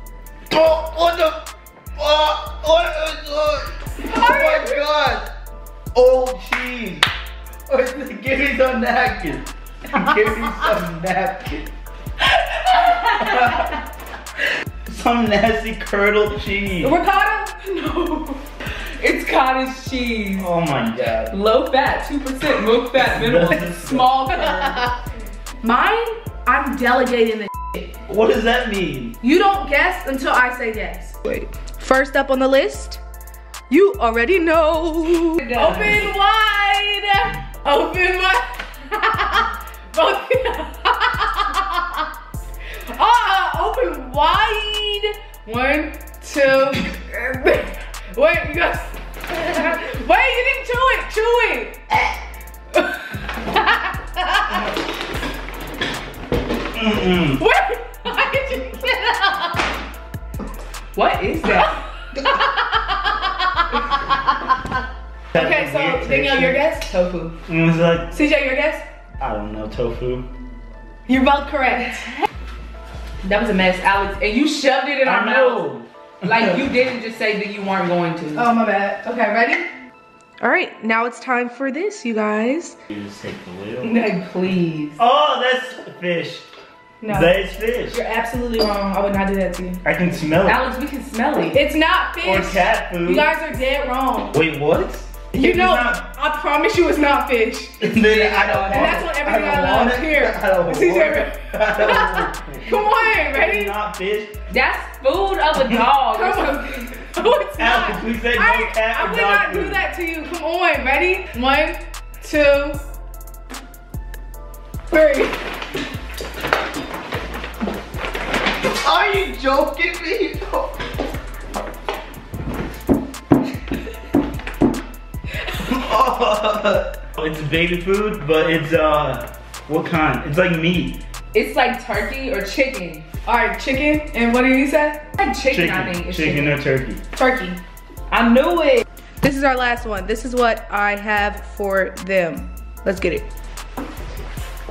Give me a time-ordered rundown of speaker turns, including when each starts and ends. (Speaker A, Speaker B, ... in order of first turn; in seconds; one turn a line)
Speaker A: 0.5-5.3
Speaker A: 5.9-7.0
Speaker A: 7.7-11.7
Speaker B: 12.7-13.5
Speaker A: 13.1-13.7
Speaker A: 14.9-17.0
Speaker C: 16.8-18.4
Speaker B: 19.0-20.5
Speaker A: 20.4-21.3
Speaker B: 21.3-24.9
Speaker A: 22.9-24.2
Speaker C: 24.3-24.8
Speaker C: 25.6-27.8
Speaker A: 28.1-29.2
Speaker C: 29.2-33.0
Speaker C: 33.7-42.1
Speaker B: 35.4-36.1
Speaker C: 42.9-52.0
Speaker C: 53.5-54.6
Speaker A: 56.7-57.4
Speaker C: 57.2-59.6
Speaker B: 60.9-61.8
Speaker C: 62.1-64.7
Speaker C: 65.3-66.9
Speaker B: 66.8-67.3
Speaker A: 67.5-68.2
Speaker C: 68.1-68.8
Speaker A: 69.2-70.3
Speaker C: 71.1-72.1
Speaker B: 73.2-75.7
Speaker A: 75.0-76.6
Speaker B: 76.2-78.5
Speaker C: 78.3-79.7
Speaker C: 80.4-82.8
Speaker A: 82.9-83.9
Speaker B: 83.8-85.0
Speaker A: 85.0-86.5
Speaker C: 87.0-87.3
Speaker A: 87.1-88.0
Speaker C: 87.9-89.8
Speaker A: 89.8-90.6
Speaker B: 90.4-91.6
Speaker C: 91.5-94.3
Speaker A: 92.2-93.3
Speaker A: 94.3-96.0
Speaker C: 95.3-97.8
Speaker A: 97.8-104.3
Speaker B: 97.9-99.1
Speaker C: 98.7-103.7
Speaker B: 104.5-106.9
Speaker C: 106.1-112.8
Speaker A: 107.6-109.8
Speaker C: 114.9-115.4
Speaker A: 118.6-120.7
Speaker A: 125.6-131.0
Speaker B: 131.3-133.1
Speaker C: 133.2-135.0
Speaker B: 135.1-136.6
Speaker A: 135.5-137.0
Speaker C: 137.1-137.6
Speaker B: 138.1-138.8
Speaker C: 139.2-143.3